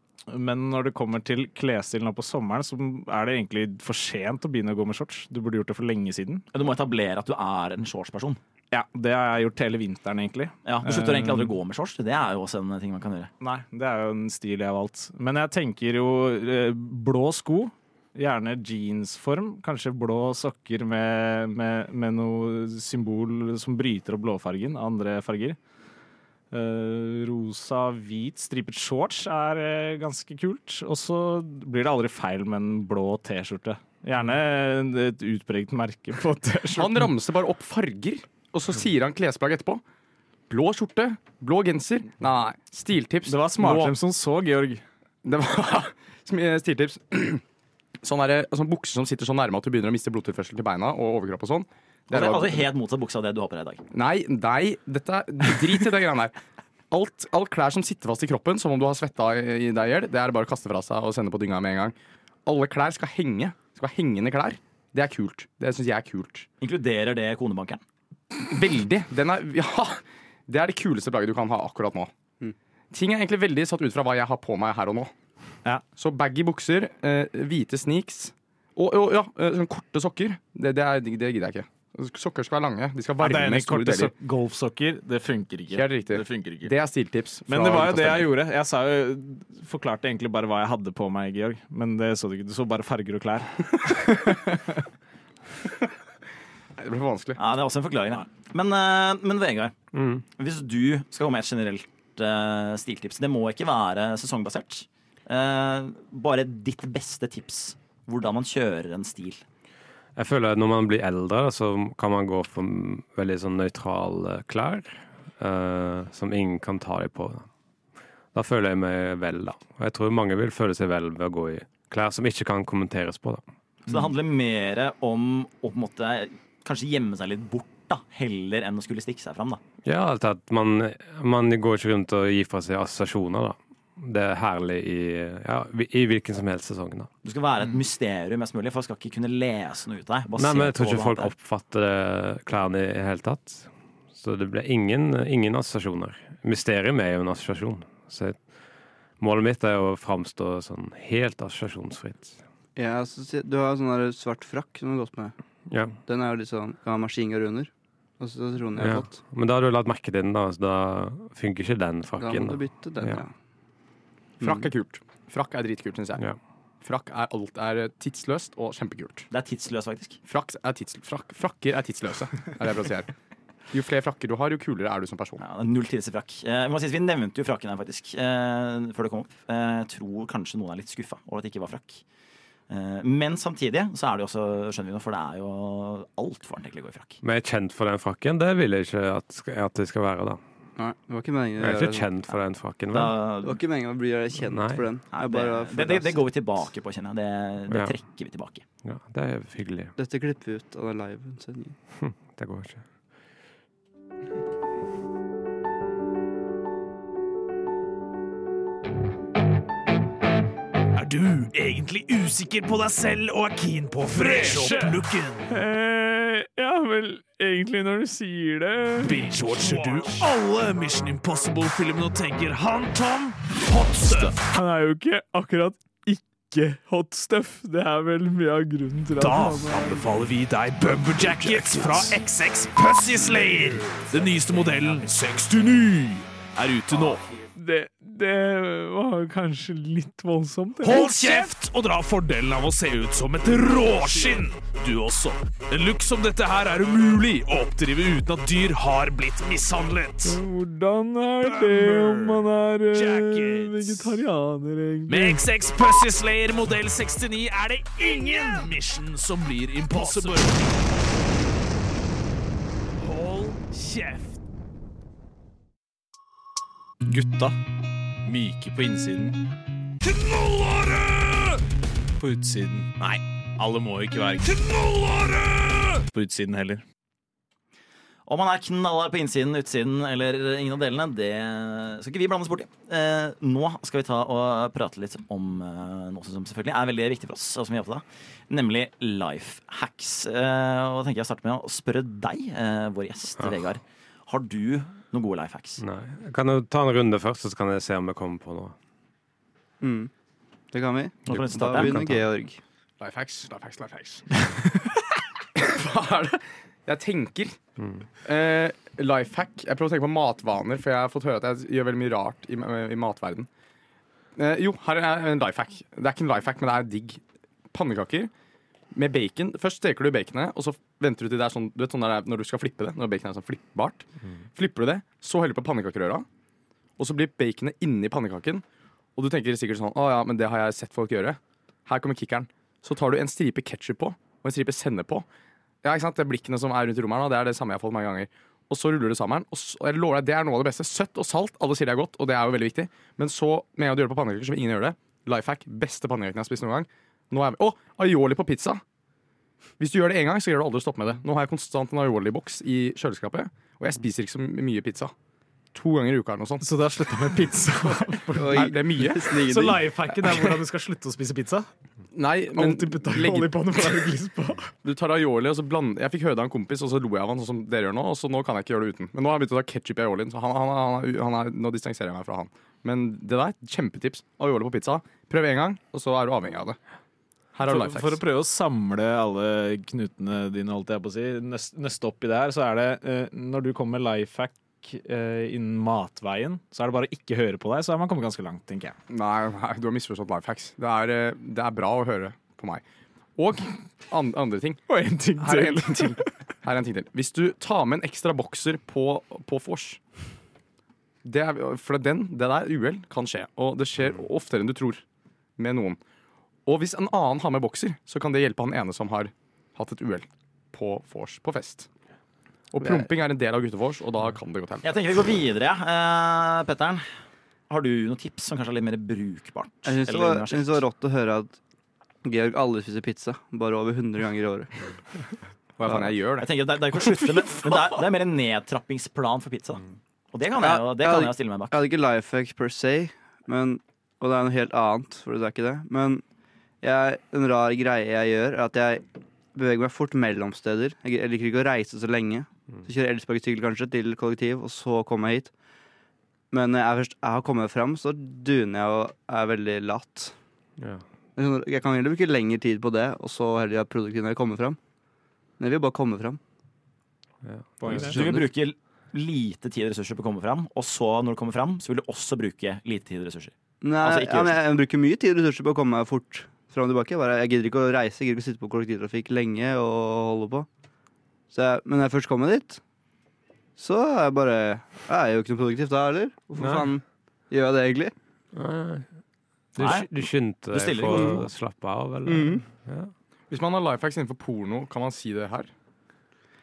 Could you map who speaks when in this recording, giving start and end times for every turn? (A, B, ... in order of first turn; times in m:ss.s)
0:00.3-0:06.4 A
0:06.5-0:08.4 B
0:08.7-0:11.5 A
0:10.6-0:13.3 B
0:13.4-0:25.6 A
0:26.5-0:37.1 A
0:36.8-0:39.8 C
0:40.5-0:43.9 C
0:43.2-0:44.8 A
0:45.2-0:47.4 C
0:48.0-0:52.7 C
0:52.1-0:53.8 B
0:53.9-0:56.3 C
0:56.9-1:06.5 C
1:06.6-1:07.8 B
1:08.3-1:12.1 C
1:12.9-1:15.1 C
1:16.0-1:24.1 C
1:23.2-1:26.7 A
1:25.7-1:28.3 C
1:27.5-1:34.6 A
1:36.8-1:37.4 C
1:37.4-1:39.7 B
1:39.9-1:40.2 D
1:40.4-1:49.4 B
1:50.2-1:57.5 D
1:58.3-2:03.4 D
2:03.8-2:09.6 B
2:09.8-2:17.1 D
2:17.2-2:21.3 B
2:20.4-2:28.4 D
2:29.2-2:32.4 D
2:32.8-2:35.3 E
2:35.7-2:36.0 D
2:36.0-2:39.2 E
2:38.8-2:43.2 D
2:42.2-2:43.3 E
2:44.4-2:44.7 E
2:44.4-2:46.2 C
2:46.8-2:49.3 C
2:49.3-2:50.2 B
2:50.2-2:53.1 C
2:53.7-2:55.4 C
2:55.4-3:02.0 B
3:02.7-3:07.2 B
3:07.2-3:10.4 D
3:10.8-3:12.1 E
3:11.6-3:13.2 D
3:12.9-3:13.6 B
3:13.4-3:16.2 E
3:14.4-3:14.8 D
3:15.1-3:18.6 B
3:17.7-3:18.0 D
3:18.8-3:19.9 D
3:20.0-3:21.8 E
3:22.0-3:22.8 D
3:31.0-3:35.5 F
3:34.1-3:40.3 A
3:39.0-3:44.5 F
3:44.0-3:50.1 A
3:49.1-3:57.2 F
3:51.1-3:52.1 A
3:54.2-3:54.5 A
3:57.5-4:01.6 A
4:00.8-4:10.4 F
4:03.4-4:04.5 A
4:10.2-4:15.4 A
4:11.5-4:14.2 F
4:15.1-4:20.7 F
4:19.9-4:20.4 A
4:23.0-4:24.3 F
4:27.1-4:27.6 A
4:28.2-4:29.4 A
4:30.2-4:31.0 F
4:32.2-4:36.8 A
4:34.9-4:35.3 F
4:38.2-4:55.8 B
4:55.8-4:58.8 D
4:59.8-5:00.1 E
5:00.7-5:02.6 E
5:01.3-5:02.1 B
5:03.0-5:04.5 C
5:05.5-5:07.6 C
5:07.8-5:08.0 D
5:08.2-5:13.5 C
5:14.4-5:17.2 C
5:17.7-5:18.3 C
5:18.9-5:26.2 C
5:27.0-5:28.6 C
5:29.2-5:35.2 C
5:35.8-5:48.8 C
5:49.8-5:55.1 C
5:55.7-5:56.7 C
5:56.6-6:01.7 A
5:57.8-6:00.5 C
5:58.4-5:59.8 E
6:02.1-6:04.1 C
6:02.5-6:04.7 A
6:04.8-6:16.8 C
6:17.5-6:18.2 C
6:17.6-6:29.0 A
6:29.1-6:32.8 C
6:33.4-6:40.0 C
6:34.9-6:36.2 A
6:41.2-6:45.0 C
6:45.6-6:46.0 C
6:46.6-6:51.9 C
6:52.7-6:54.9 C
6:52.8-6:53.1 E
6:54.8-6:57.0 B
6:57.7-7:00.8 B
6:59.8-7:01.6 E
7:02.2-7:04.7 E
7:05.8-7:06.5 C
7:06.4-7:11.8 B
7:10.6-7:16.2 E
7:16.8-7:25.5 E
7:26.5-7:30.3 E
7:30.8-7:31.0 D
7:31.4-7:34.8 E
7:35.6-7:36.4 E
7:37.4-7:38.3 D
7:37.8-7:38.2 A
7:37.9-7:44.6 B
7:43.8-7:50.7 E
7:51.5-7:52.8 E
7:53.8-7:58.1 E
7:56.6-7:56.9 D
7:58.5-7:59.1 D
7:59.8-8:03.1 D
7:59.8-8:00.1 B
8:00.7-8:01.4 B
8:02.2-8:02.6 E
8:03.5-8:05.7 C